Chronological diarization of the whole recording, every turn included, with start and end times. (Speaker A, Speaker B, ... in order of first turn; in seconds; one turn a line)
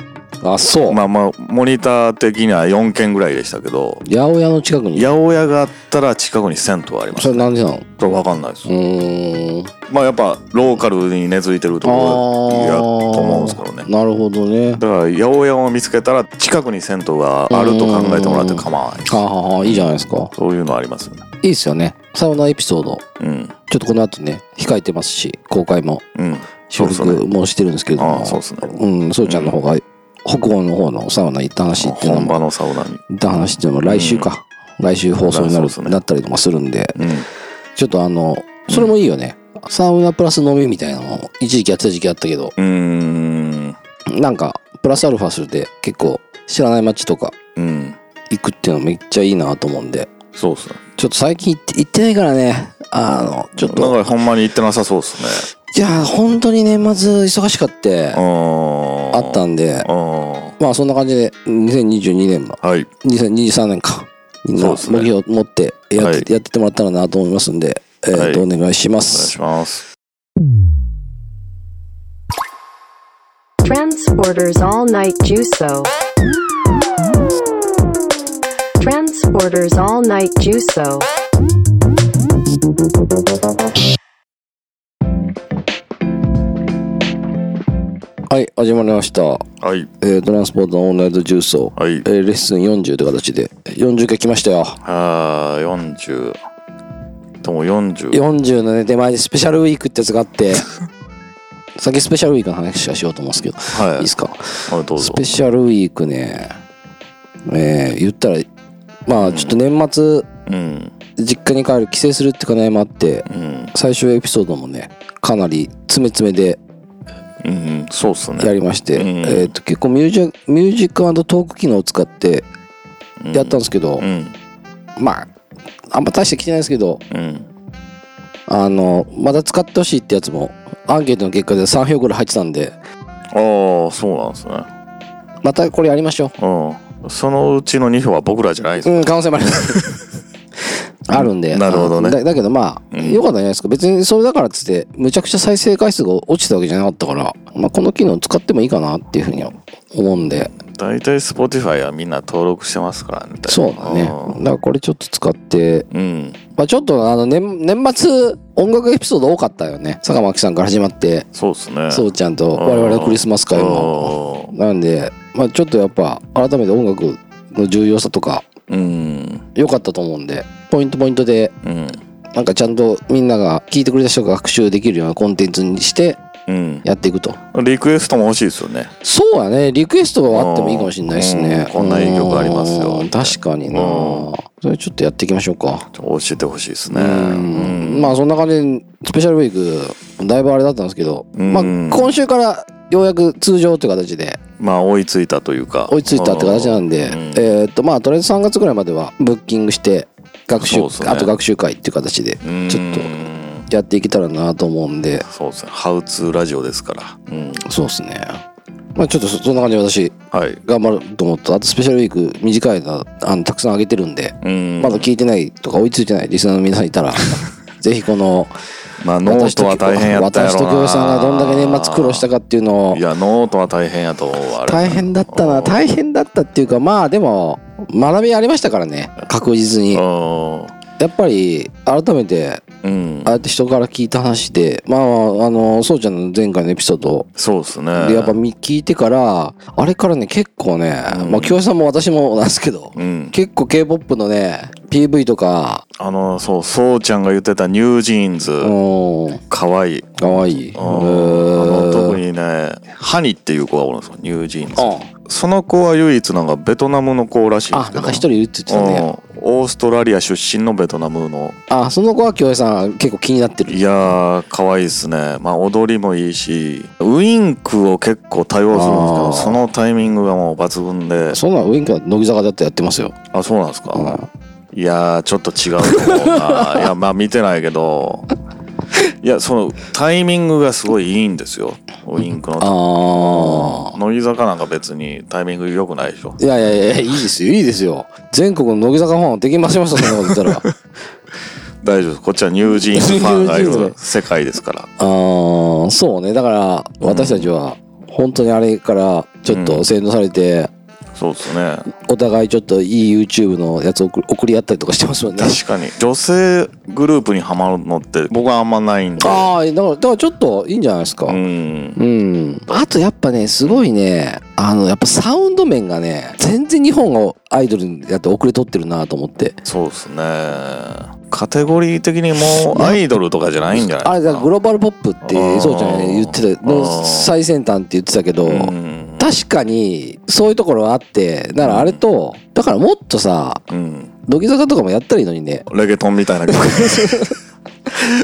Speaker A: 0.4-1.0
Speaker B: 0.9-4.0
Speaker A: 4.1-5.1
Speaker B: 4.9-7.5
Speaker A: 7.2-7.9
Speaker B: 8.0-8.7
Speaker A: 8.7-9.7
Speaker B: 9.9-13.9
Speaker A: 11.8-14.8
Speaker B: 14.8-21.3
Speaker A: 17.5-20.3
Speaker A: 21.4-23.0
Speaker B: 23.2-23.6
Speaker A: 23.7-26.0
Speaker B: 26.1-27.2
Speaker A: 26.7-32.4
Speaker B: 28.0-28.7
Speaker B: 29.2-29.6
Speaker B: 31.8-33.0
Speaker A: 33.1-37.0
Speaker B: 33.9-34.3
Speaker B: 35.3-36.0
Speaker B: 37.0-37.3
Speaker A: 37.8-42.5
Speaker B: 42.6-43.8
Speaker A: 44.1-47.4
Speaker B: 47.6-48.0
Speaker A: 48.3-50.1
Speaker B: 50.4-50.8
Speaker A: 51.0-54.0
Speaker B: 53.6-55.5
Speaker A: 55.7-58.2
Speaker B: 58.1-60.5
Speaker A: 59.1-59.9
Speaker A: 60.6-69.3
Speaker B: 62.6-62.9
Speaker B: 64.6-65.1
Speaker B: 66.0-66.3
Speaker B: 68.1-68.5
Speaker B: 69.1-69.8
Speaker C: 73.6-75.9
Speaker C: 78.8-81.1
Speaker A: 88.3-89.5
Speaker B: 89.6-89.9
Speaker A: 90.0-94.8
Speaker B: 91.8-92.1
Speaker B: 94.8-96.4
Speaker B: 97.4-98.2
Speaker A: 98.1-100.7
Speaker A: 101.8-106.5
Speaker B: 103.7-104.1
Speaker B: 104.7-105.2
Speaker A: 107.5-108.5
Speaker A: 109.1-110.3
Speaker B: 109.2-109.6
Speaker B: 110.5-110.9
Speaker A: 111.2-116.6
Speaker B: 113.3-113.7
Speaker B: 117.4-119.5
Speaker A: 118.4-122.5
Speaker B: 123.2-124.3
Speaker A: 123.3-124.1
Speaker A: 125.0-125.3
Speaker A: 125.9-127.0
Speaker B: 127.1-127.5
Speaker A: 128.5-132.8
Speaker B: 133.3-134.7
Speaker A: 135.4-136.3
Speaker B: 136.4-139.1
Speaker A: 138.8-139.9
Speaker A: 141.1-150.5
Speaker B: 141.1-142.2
Speaker B: 142.9-143.3
Speaker B: 150.5-154.4
Speaker A: 153.5-155.9
Speaker B: 155.9-156.4
Speaker A: 156.6-161.3
Speaker B: 161.3-164.5
Speaker A: 161.9-168.5
Speaker B: 168.7-169.5
Speaker A: 169.6-171.5
Speaker B: 171.6-172.0
Speaker A: 172.3-176.2
Speaker B: 176.5-176.8
Speaker A: 176.8-177.4
Speaker B: 177.5-178.9
Speaker A: 179.0-185.9
Speaker B: 180.3-184.3
Speaker B: 185.9-188.2
Speaker A: 186.9-194.4
Speaker B: 191.3-192.2
Speaker B: 194.6-197.5
Speaker A: 195.9-203.1
Speaker B: 200.6-201.3
Speaker B: 202.4-203.7
Speaker A: 203.7-205.3
Speaker B: 205.3-207.6
Speaker A: 207.6-208.4
Speaker A: 209.0-218.5
Speaker B: 210.3-210.6
Speaker B: 214.4-215.1
Speaker B: 219.0-222.3
Speaker A: 219.2-223.0
Speaker B: 222.9-225.8
Speaker A: 224.7-230.0
Speaker B: 229.9-230.7
Speaker A: 231.0-232.6
Speaker B: 232.8-233.3
Speaker A: 233.2-237.3
Speaker B: 237.4-238.4
Speaker A: 237.9-245.8
Speaker B: 241.1-241.6
Speaker B: 242.9-243.3
Speaker B: 246.0-248.8
Speaker A: 248.6-249.4
Speaker B: 249.5-261.6
Speaker A: 250.2-252.2
Speaker A: 254.8-255.1
Speaker A: 257.7-259.1
Speaker A: 261.7-263.8
Speaker B: 263.7-271.4
Speaker A: 268.7-269.6
Speaker A: 271.3-273.2
Speaker B: 273.3-274.2
Speaker A: 273.9-274.3
Speaker B: 274.7-278.3
Speaker A: 275.9-276.9
Speaker B: 279.2-286.4
Speaker A: 282.6-284.0
Speaker A: 286.4-290.7
Speaker B: 290.2-290.7
Speaker B: 291.8-294.9
Speaker A: 292.9-294.0
Speaker A: 295.0-300.7
Speaker B: 297.0-297.5
Speaker B: 299.5-299.9
Speaker B: 301.1-301.9
Speaker A: 302.0-305.6
Speaker B: 305.4-309.5
Speaker A: 309.2-311.4
Speaker B: 311.3-312.0
Speaker A: 312.0-319.6
Speaker B: 319.6-324.5
Speaker A: 322.4-323.0
Speaker A: 323.9-333.6
Speaker B: 325.2-327.3
Speaker B: 328.4-329.3
Speaker B: 331.6-332.0
Speaker B: 333.7-334.1
Speaker A: 334.3-335.7
Speaker B: 335.7-337.3
Speaker A: 336.5-337.4